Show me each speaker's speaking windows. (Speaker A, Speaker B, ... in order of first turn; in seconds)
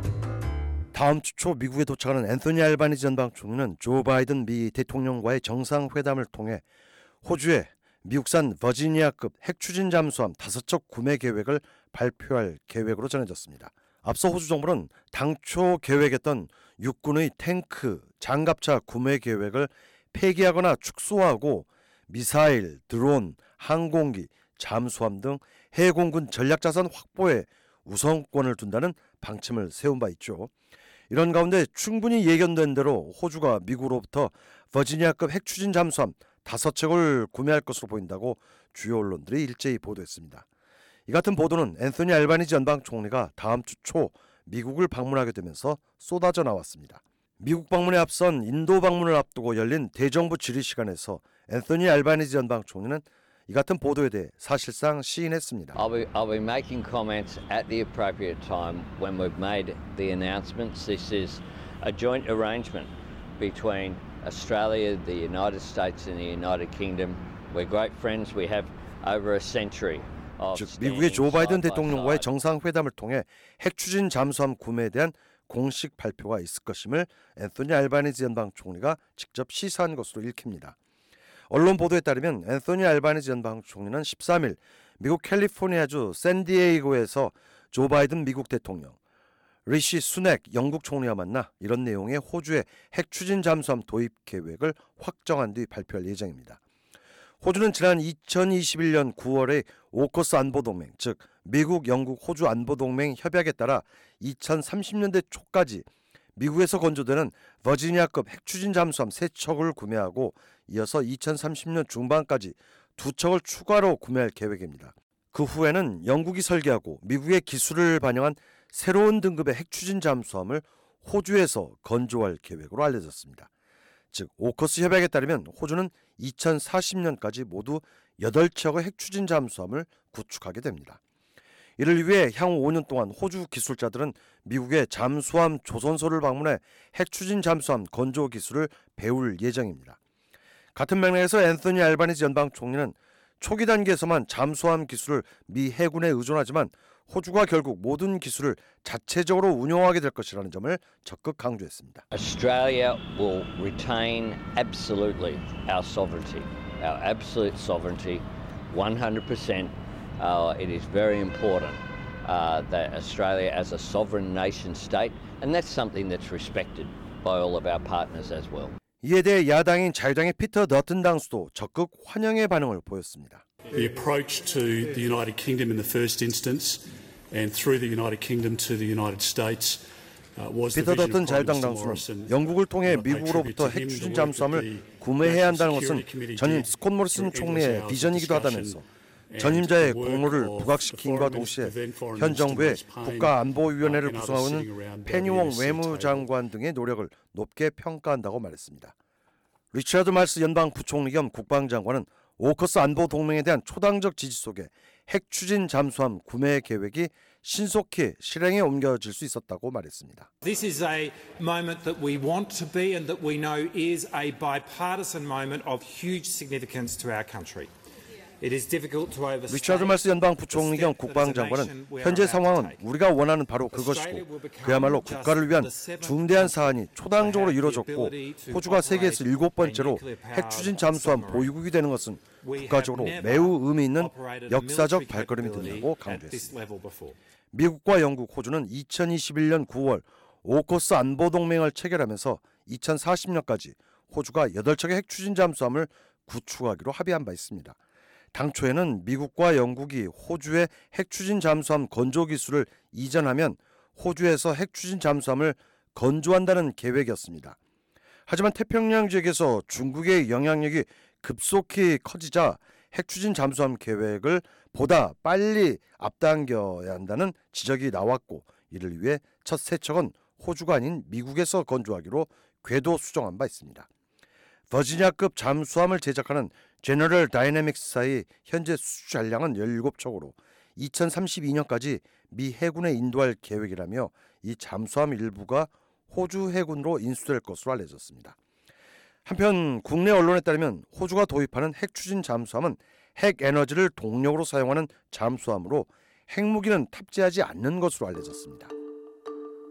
Speaker A: 0.9-6.6, 7.2-30.5, 31.1-40.5, 41.1-55.8, 70.5-80.8, 81.5-89.0, 89.7-96.6, 97.4-123.5, 124.1-131.0, 131.8-140.0, 140.8-152.0, 169.0-173.4, 180.7-188.8, 189.4-198.9, 199.7-210.3, 219.5-236.5, 237.5-247.8, 248.3-257.6, 258.3-273.9, 274.7-288.4, 289.3-298.7
Speaker B: 55.7-72.2, 152.1-168.8
Speaker C: 173.7-196.3
Speaker D: 210.4-217.7, 218.4-222.8, 223.7-231.6, 232.4-237.2